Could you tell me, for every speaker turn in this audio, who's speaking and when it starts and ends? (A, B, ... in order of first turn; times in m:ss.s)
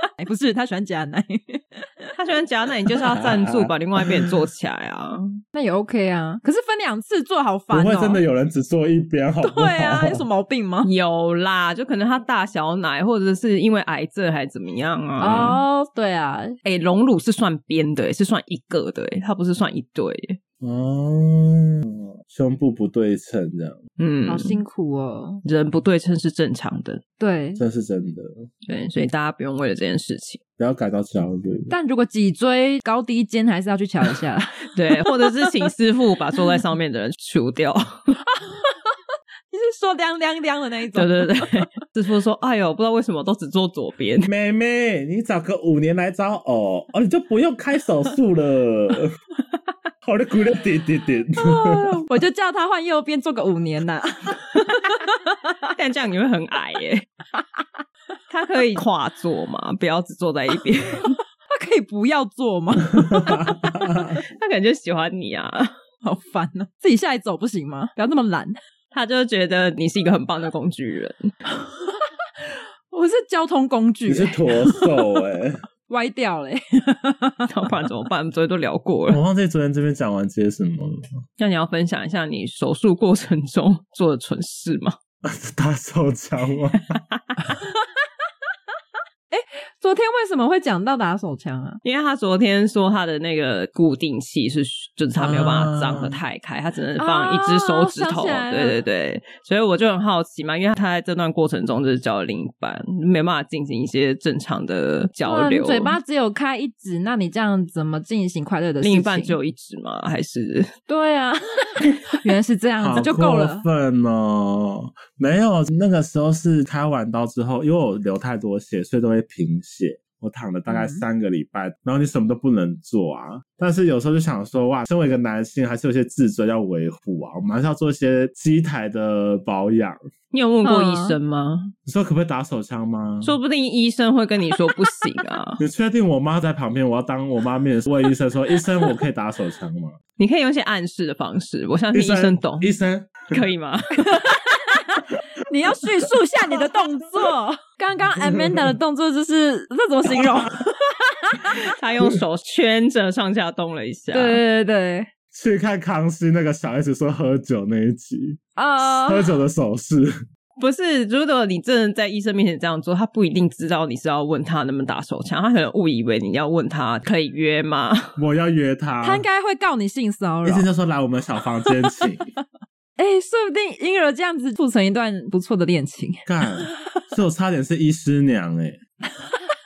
0:00.2-0:02.0 A
0:02.2-0:05.4 B
0:03.1-0:04.3 C
0:05.5-0:08.2 A
0:07.7-0:10.2 C
0:09.4-0:10.9 A
0:10.8-0:15.6 B
0:15.2-0:16.5 A
0:16.6-0:20.4 B
0:20.6-0:23.8 C
0:24.0-0:24.6 B
0:24.3-0:25.4 A
0:25.4-0:27.0 B
0:27.2-0:27.6 A
0:27.6-0:28.4 C
0:28.7-0:30.4 B
0:30.6-0:31.7 C
0:31.7-0:35.7 A
0:34.7-0:38.1 B
0:38.3-0:38.9 A
0:39.5-0:41.7 A
0:40.9-0:44.3 B
0:44.2-0:49.2 C
0:50.0-0:51.9 C
0:51.4-0:55.5 A
0:55.7-0:57.0 B
0:58.3-1:01.2 B
1:01.5-1:03.7 A
1:03.0-1:04.0 C
1:04.2-1:05.7 B
1:06.0-1:08.6 A
1:08.9-1:11.3 B
1:11.8-1:15.0 A
1:14.1-1:15.6 C
1:15.9-1:17.5 A
1:17.5-1:19.2 B
1:19.1-1:21.1 C
1:21.4-1:25.0 B
1:25.2-1:26.9 C
1:26.9-1:27.2 B
1:29.3-1:31.8 A
1:31.8-1:46.0 B
1:35.2-1:36.2 C
1:37.0-1:38.8 A
1:45.2-1:49.4 A
1:48.8-1:50.7 B
1:50.9-1:53.6 A
1:52.8-2:10.0 C
2:00.7-2:01.0 A
2:10.3-2:11.7 B
2:10.6-2:11.2 A
2:11.8-2:13.3 C
2:13.2-2:15.6 B
2:15.6-2:20.0 C
2:20.2-2:22.8 B
2:21.9-2:23.3 C
2:23.3-2:24.3 B
2:24.0-2:31.6 A
2:26.5-2:26.8 C
2:28.2-2:28.7 C
2:30.0-2:30.5 C
2:31.5-2:34.4 B
2:34.1-2:35.1 A
2:35.3-2:40.2 C
2:38.6-2:39.3 A
2:40.6-2:48.2 B
2:48.2-2:49.2 C
2:49.0-2:50.7 A
2:50.4-2:52.3 C
2:53.0-2:57.0 A
2:56.2-2:58.8 C